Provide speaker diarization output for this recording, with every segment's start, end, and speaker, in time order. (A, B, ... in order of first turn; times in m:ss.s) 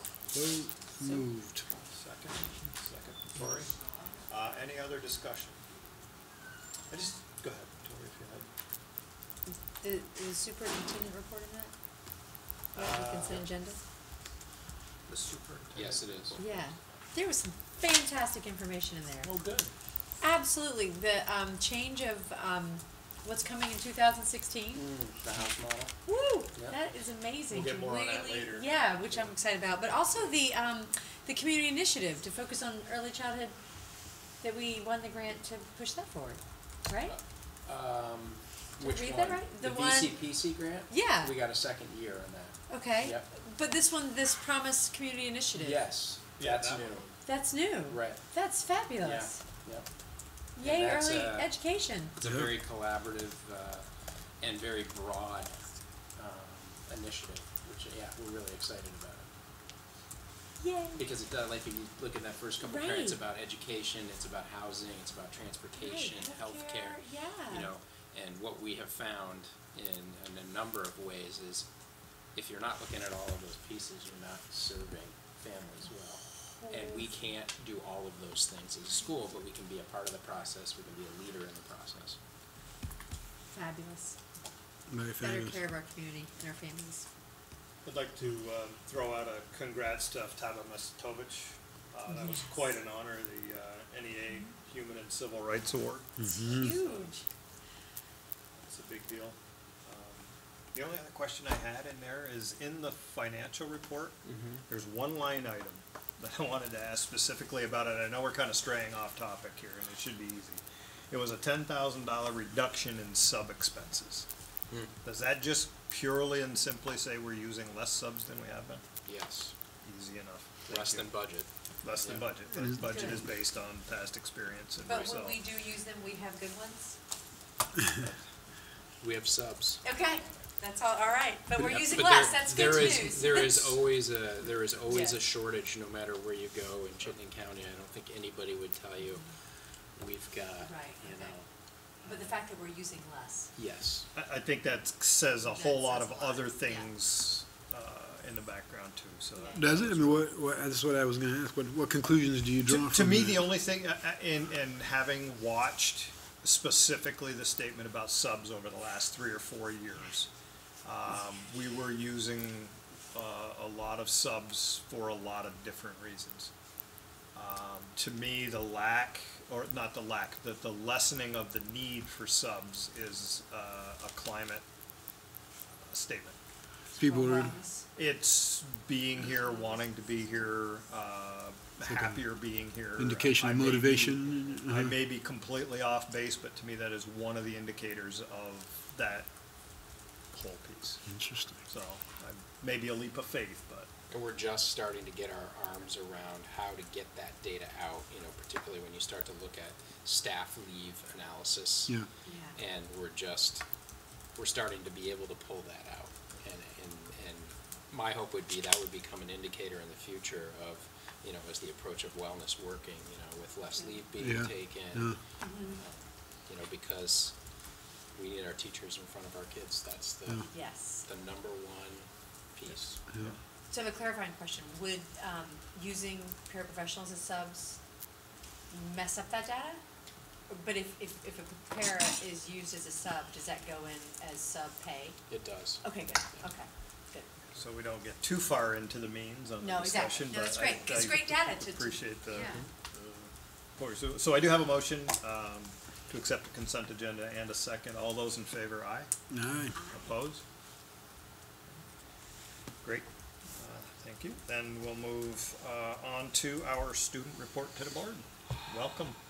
0:00.3-0:01.6 A
0:01.9-0:03.7 B
0:04.3-0:05.6 B
0:06.9-0:08.5 B
0:09.5-0:11.7 C
0:12.7-0:13.5 B
0:12.7-0:13.8 C
0:15.1-0:16.6 B
0:15.7-0:16.5 D
0:16.4-0:19.3 C
0:19.2-0:19.7 D
0:20.2-0:24.8 C
0:24.7-0:25.9 D
0:26.0-0:33.6 C
0:27.5-0:29.3 B
0:34.4-0:37.2 C
0:37.0-0:43.3 D
0:38.8-0:40.2 C
0:40.9-0:41.4 C
0:42.7-0:45.9 C
0:45.6-0:47.1 D
0:46.4-0:47.1 B
0:47.3-0:49.4 C
0:47.9-0:48.2 D
0:49.0-0:49.9 D
0:50.6-0:52.1 C
0:50.6-0:51.5 D
0:52.1-0:53.9 D
0:52.2-0:52.5 A
0:54.4-0:55.6 D
0:56.2-0:59.3 D
1:00.6-1:01.0 C
1:01.0-1:11.7 D
1:02.6-1:03.2 C
1:05.8-1:07.7 C
1:12.3-1:22.2 D
1:16.4-1:17.2 C
1:23.5-1:24.2 C
1:24.9-1:25.6 A
1:25.2-1:27.1 C
1:27.8-1:37.1 B
1:32.1-1:32.5 C
1:36.2-1:36.8 A
1:36.2-1:37.2 C
1:38.6-1:54.3 B
1:44.2-1:44.6 D
1:55.0-1:58.8 B
1:59.0-1:59.5 D
1:59.8-2:01.1 B
2:00.7-2:01.5 D
2:01.8-2:05.4 B
2:02.0-2:02.3 D
2:02.5-2:03.2 A
2:02.9-2:03.2 C
2:04.8-2:07.0 C
2:09.0-2:09.8 D
2:09.8-2:13.8 C
2:11.6-2:19.3 D
2:14.9-2:15.2 C
2:20.0-2:21.5 D
2:20.6-2:21.3 C
2:22.0-2:23.5 C
2:23.6-2:24.1 D
2:24.2-2:30.3 B
2:25.5-2:26.9 C
2:29.4-2:29.6 C
2:29.6-2:33.5 A
2:32.7-2:40.3 B
2:40.8-2:46.5 B
2:47.3-2:54.6 B
2:55.8-2:56.4 B
2:56.9-2:57.8 C
2:57.0-2:57.6 A
2:57.9-3:09.3 B
3:01.9-3:02.2 A
3:03.0-3:05.0 A
3:10.3-3:11.0 B
3:11.0-3:11.6 A
3:11.7-3:13.9 B
3:14.1-3:22.0 D
3:22.2-3:22.6 C
3:22.5-3:23.6 D
3:24.3-3:37.3 D
3:34.2-3:35.2 A
3:35.4-3:35.8 C
3:38.1-3:43.0 D
3:40.5-3:41.0 C
3:43.1-3:43.3 A
3:43.7-3:47.8 C
3:48.7-3:49.8 C
3:50.5-3:55.2 C
3:55.3-3:56.2 D
3:55.8-3:57.4 C
3:57.5-4:02.6 B
3:59.6-4:02.6 C
4:03.8-4:09.1 B
4:09.3-4:09.8 A
4:09.8-4:10.4 B
4:12.8-4:19.2 B